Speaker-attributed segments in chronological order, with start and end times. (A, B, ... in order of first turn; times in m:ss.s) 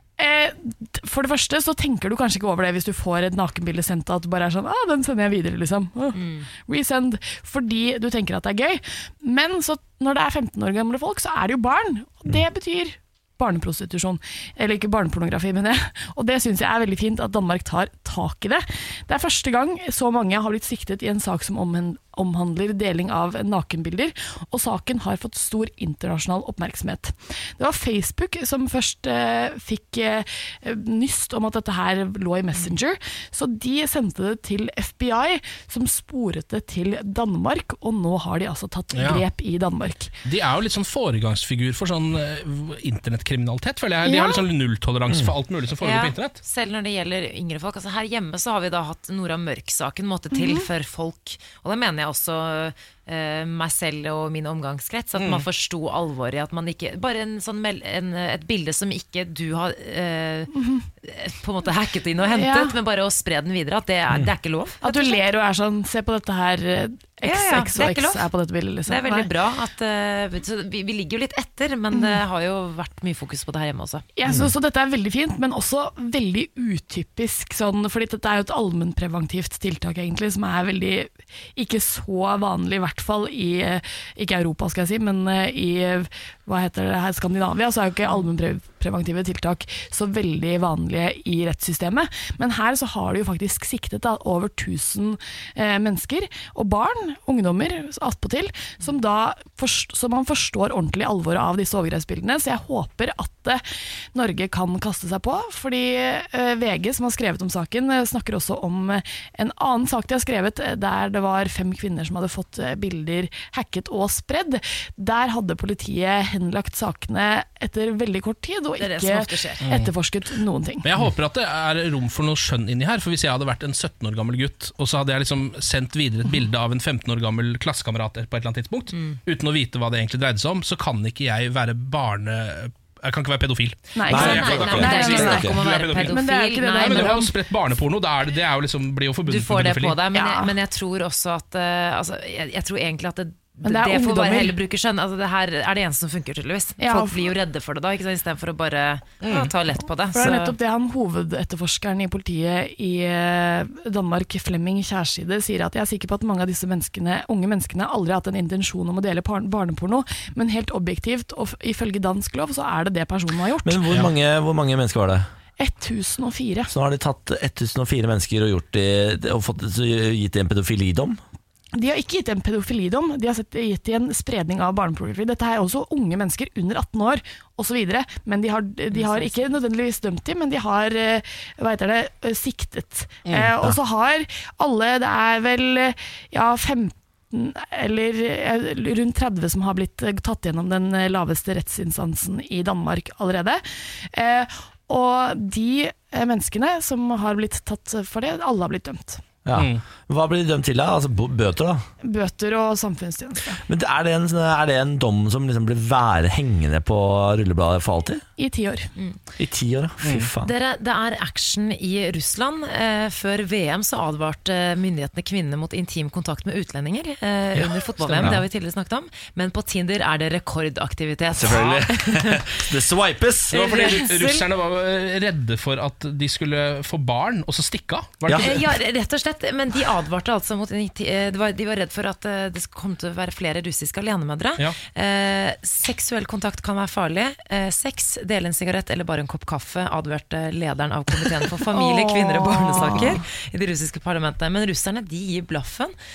0:00.2-0:40.1 A
0:06.1-0:06.4 B
0:38.9-0:39.2 C
0:40.2-0:46.4 C
0:44.0-0:44.4 A
0:45.8-1:05.2 B
0:50.3-0:50.7 A
0:55.2-0:55.4 C
1:00.5-1:00.9 A
1:02.3-1:02.7 A
1:04.8-1:09.3 A
1:07.2-1:08.3 B
1:08.9-1:14.0 B
1:11.9-1:12.2 A
1:14.2-1:43.6 A
1:44.1-2:00.9 A
1:58.8-1:59.7 B
1:59.6-1:59.9 C
2:00.8-2:16.2 C
2:13.9-2:17.3 A
2:14.1-2:15.6 D
2:14.1-2:17.2 B
2:16.8-2:20.0 C
2:19.2-2:30.6 B
2:20.1-2:20.5 A
2:23.6-2:24.6 A
2:26.8-2:27.3 A
2:30.1-2:43.9 A
2:43.6-2:45.3 D
2:45.6-2:46.7 A
2:46.7-2:51.2 D
2:51.8-3:13.6 A
2:58.9-2:59.4 B
3:03.3-3:03.5 C
3:14.1-3:19.2 A
3:19.4-3:21.9 D
3:19.5-3:19.8 C
3:22.0-3:23.6 A
3:23.7-3:28.2 D
3:28.4-3:28.9 A
3:29.4-3:30.5 D
3:30.0-3:30.3 C
3:30.4-3:42.6 B
3:37.6-3:38.4 C
3:41.3-3:43.8 D
3:43.5-3:44.5 B
3:43.5-3:48.6 C
3:48.2-3:48.5 D
3:48.4-4:05.9 B
4:01.7-4:03.2 A